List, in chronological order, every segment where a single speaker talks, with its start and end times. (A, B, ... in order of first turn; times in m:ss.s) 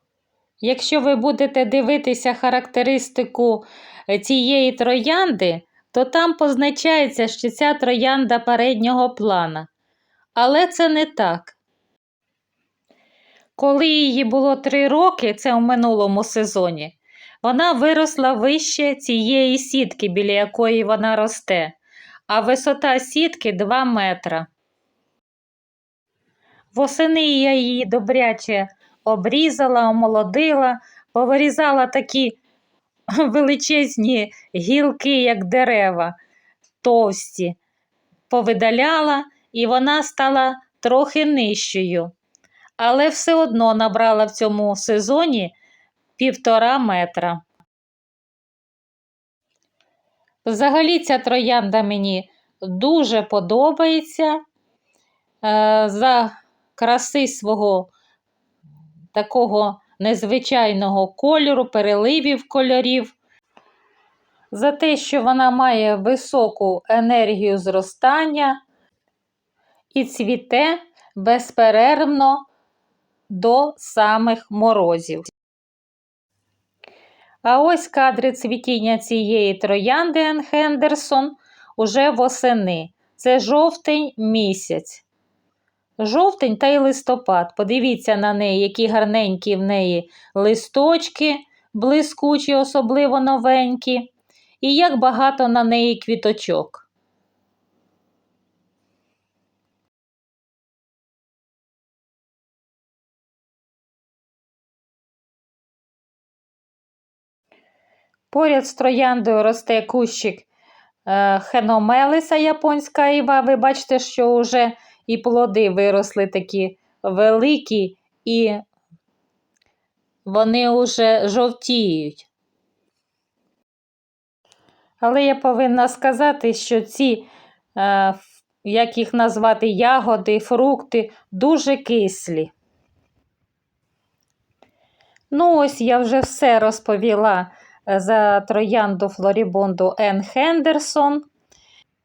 0:00.6-0:09.7 A
0:10.4-0:11.6 A
0:13.6-0:21.8 A
0:22.3-0:24.5 A
0:26.7-0:32.4 A
0:33.2-0:36.2 A
0:36.8-0:37.6 A
0:38.3-0:42.1 A
0:42.8-0:45.5 A
0:46.2-0:47.4 A
0:50.4-0:54.4 A
0:55.4-0:57.9 A
0:59.1-1:03.2 A
1:04.5-1:08.6 A
1:09.9-1:12.4 A
1:13.3-1:15.3 A
1:17.4-1:25.0 A
1:26.0-1:36.8 A
1:48.3-1:50.5 A
1:51.0-1:58.6 A
2:00.2-2:02.3 A
2:05.0-2:12.5 A
2:15.3-2:21.2 A